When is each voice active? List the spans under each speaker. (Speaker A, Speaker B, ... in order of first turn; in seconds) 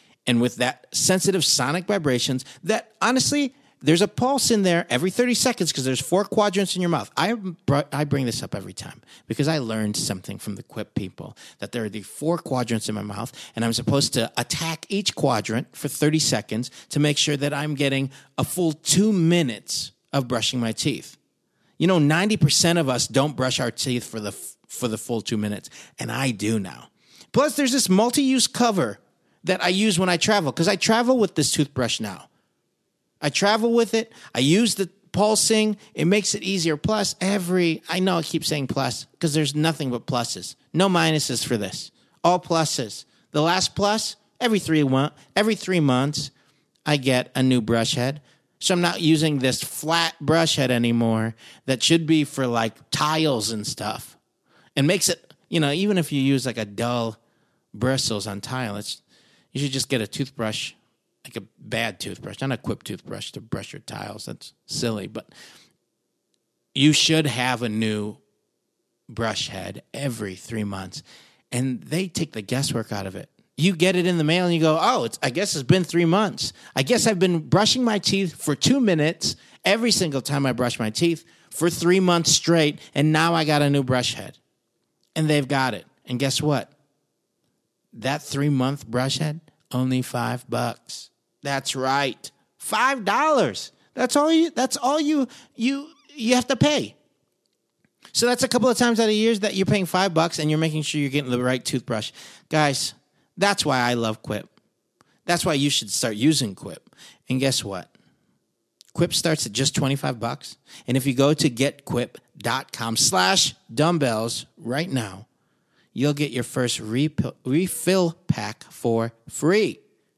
Speaker A: 0.3-21.2, 21.8-32.3, 33.2-46.3, 46.9-54.1, 54.8-57.2, 57.7-59.0, 59.5-65.3, 66.8-68.2, 69.1-84.4, 85.2-86.7, 87.9-96.9, 98.1-104.5, 105.3-107.9, 109.0-115.3, 116.0-119.8